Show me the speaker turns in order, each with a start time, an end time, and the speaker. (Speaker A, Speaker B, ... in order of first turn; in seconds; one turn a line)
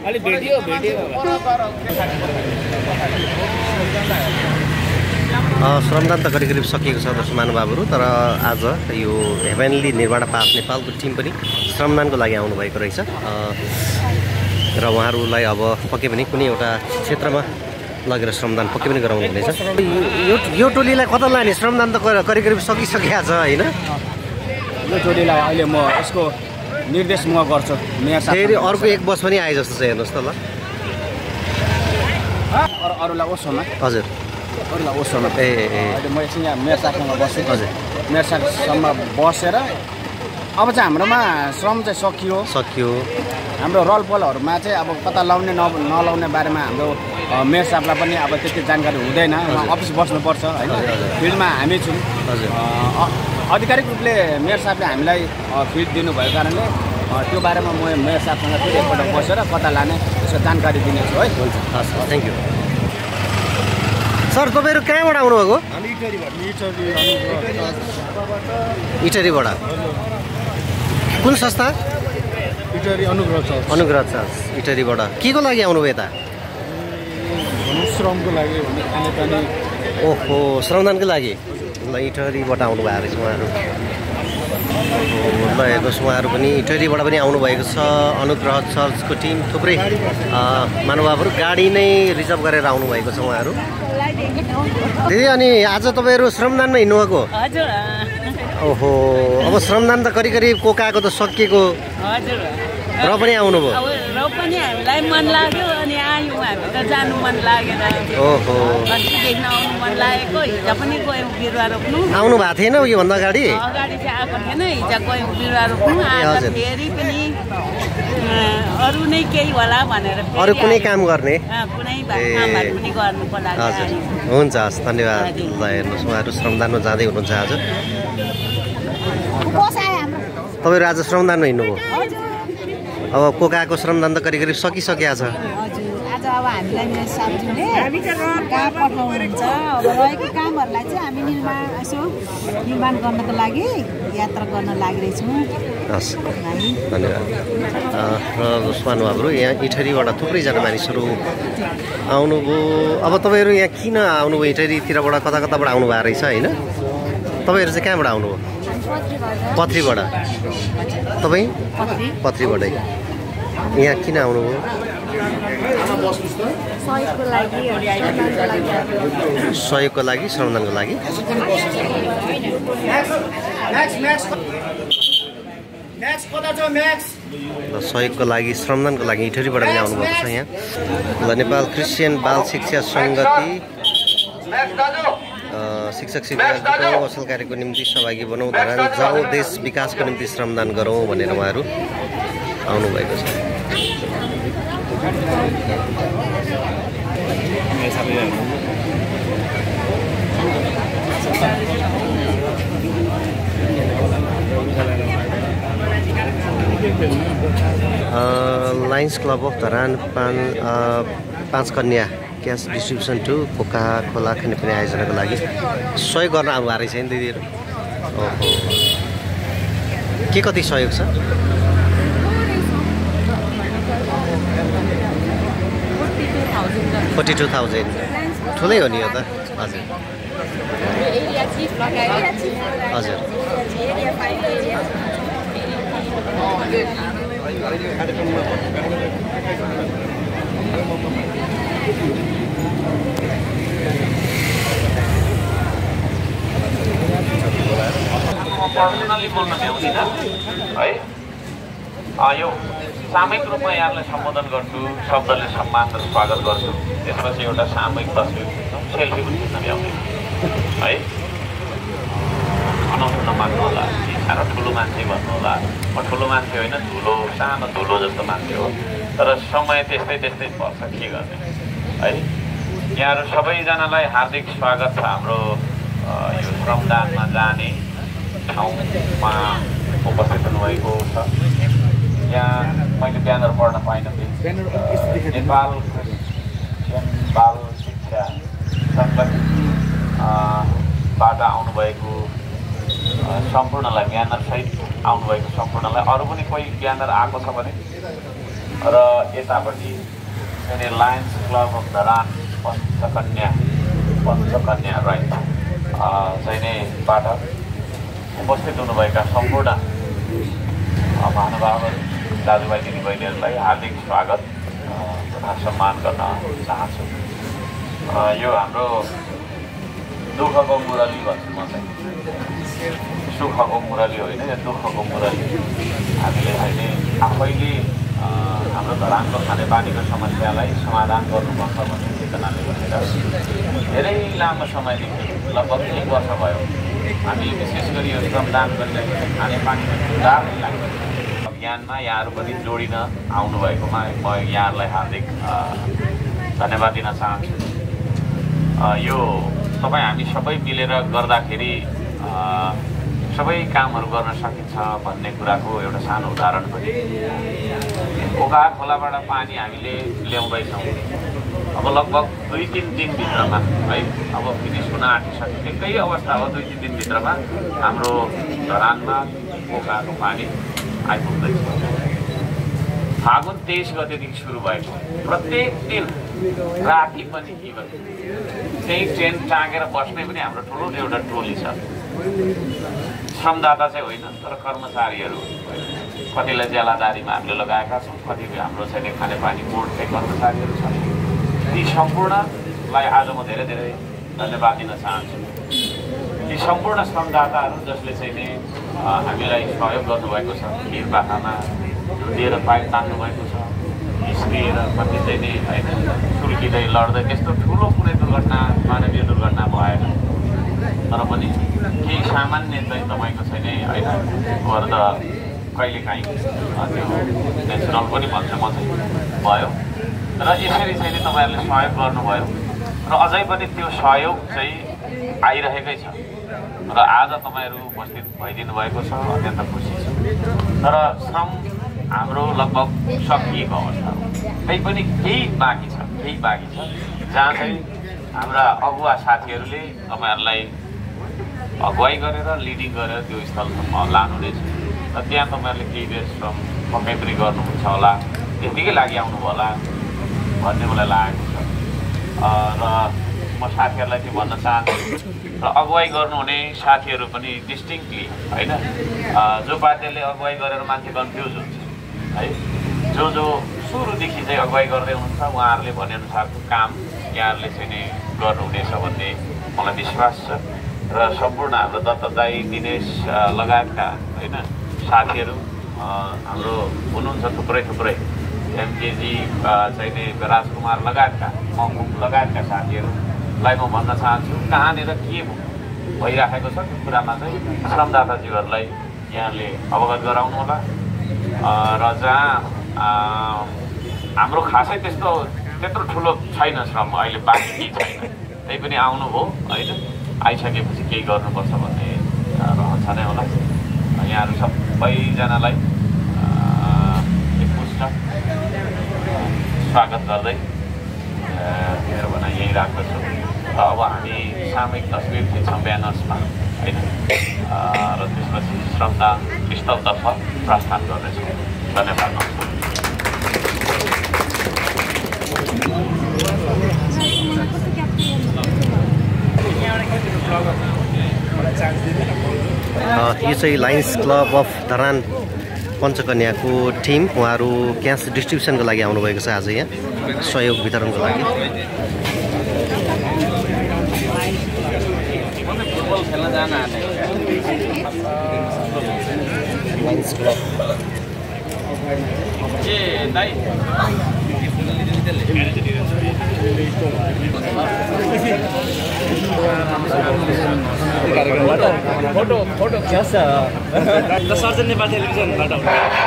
Speaker A: 0.3-1.4
Speaker B: 5.6-13.8
Speaker B: 14.8-17.5
Speaker B: 18.1-23.7
Speaker C: 24.8-26.4
Speaker C: 26.9-29.0
Speaker B: 28.3-30.4
Speaker C: 32.5-33.7
Speaker B: 33.8-34.1
Speaker C: 34.7-39.8
Speaker B: 35.4-36.0
Speaker B: 37.5-37.7
Speaker C: 40.6-42.5
Speaker B: 42.5-43.1
Speaker C: 43.6-61.6
Speaker B: 49.5-49.8
Speaker B: 50.7-51.2
Speaker B: 52.3-52.5
Speaker B: 61.7-62.4
Speaker B: 64.3-65.6
Speaker D: 66.8-67.4
Speaker B: 69.0-69.6
Speaker B: 71.2-71.8
Speaker B: 73.4-76.1
Speaker D: 78.0-79.2
Speaker B: 80.0-83.6
Speaker B: 84.9-93.6
Speaker E: 93.8-95.0
Speaker B: 95.0-97.3
Speaker F: 97.4-98.4
Speaker B: 98.5-101.8
Speaker F: 102.0-112.2
Speaker B: 103.0-103.8
Speaker B: 108.2-108.9
Speaker B: 112.1-113.6
Speaker F: 113.5-117.4
Speaker B: 116.0-116.6
Speaker F: 118.1-121.0
Speaker B: 120.4-121.5
Speaker F: 121.5-124.2
Speaker B: 122.1-122.8
Speaker B: 123.5-127.7
Speaker F: 125.2-125.5
Speaker E: 129.5-130.2
Speaker B: 130.6-131.8
Speaker E: 131.9-132.4
Speaker B: 133.1-135.4
Speaker E: 135.5-142.1
Speaker E: 142.7-145.4
Speaker B: 145.9-146.2
Speaker E: 146.3-146.8
Speaker B: 146.9-147.3
Speaker B: 147.9-151.2
Speaker B: 152.1-156.6
Speaker B: 157.4-158.4
Speaker B: 159.5-160.1
Speaker B: 161.2-162.8
Speaker B: 163.7-164.6
Speaker E: 166.9-169.2
Speaker B: 169.4-171.0
Speaker C: 171.2-172.1
Speaker C: 172.8-174.4
Speaker C: 176.0-177.2
Speaker B: 177.7-180.5
Speaker B: 181.2-183.6
Speaker B: 185.5-191.7
Speaker B: 192.7-193.5
Speaker B: 208.1-215.4
Speaker B: 216.0-217.4
Speaker B: 218.1-218.9
Speaker B: 220.3-221.1
Speaker B: 227.1-229.9
Speaker B: 232.9-233.2
Speaker A: 248.2-250.1
Speaker A: 250.8-251.0
Speaker A: 252.2-260.1
Speaker A: 260.8-261.1
Speaker A: 262.1-271.4
Speaker A: 272.0-272.3
Speaker A: 272.9-277.8
Speaker A: 278.5-281.3
Speaker A: 282.3-286.2
Speaker A: 286.8-288.4
Speaker A: 288.9-289.5
Speaker A: 290.2-292.3
Speaker A: 293.2-297.8
Speaker A: 298.8-300.0
Speaker A: 300.6-303.6
Speaker A: 304.2-305.4
Speaker A: 306.0-307.4
Speaker A: 308.4-309.8
Speaker A: 311.2-317.2
Speaker A: 318.1-319.1
Speaker A: 320.3-321.9
Speaker A: 323.3-325.6
Speaker A: 326.2-333.2
Speaker A: 333.9-336.7
Speaker A: 337.3-345.9
Speaker A: 346.6-347.7
Speaker A: 348.8-352.8
Speaker A: 353.3-357.0
Speaker A: 358.2-361.0
Speaker A: 361.8-370.5
Speaker A: 371.1-371.9
Speaker A: 373.2-376.1
Speaker A: 376.8-377.9
Speaker A: 378.8-381.8
Speaker A: 383.3-391.1
Speaker A: 391.7-395.5
Speaker A: 396.5-410.1
Speaker A: 411.1-415.2
Speaker A: 415.8-419.8
Speaker A: 420.4-422.5
Speaker A: 423.1-424.9
Speaker A: 425.4-426.2
Speaker A: 426.9-430.2
Speaker A: 430.8-440.7
Speaker A: 441.8-449.8
Speaker A: 450.6-451.7
Speaker A: 452.4-455.0
Speaker A: 455.6-462.6
Speaker A: 463.1-478.2
Speaker A: 478.7-490.8
Speaker A: 491.6-493.8
Speaker A: 494.4-503.6
Speaker A: 504.2-505.8
Speaker A: 506.3-508.1
Speaker A: 509.3-510.6
Speaker A: 511.5-517.1
Speaker A: 517.7-522.8
Speaker B: 533.0-535.3
Speaker B: 536.0-541.5
Speaker A: 545.7-547.5
Speaker A: 552.7-553.7
Speaker A: 555.5-556.2
Speaker C: 561.7-562.3
Speaker C: 563.1-564.4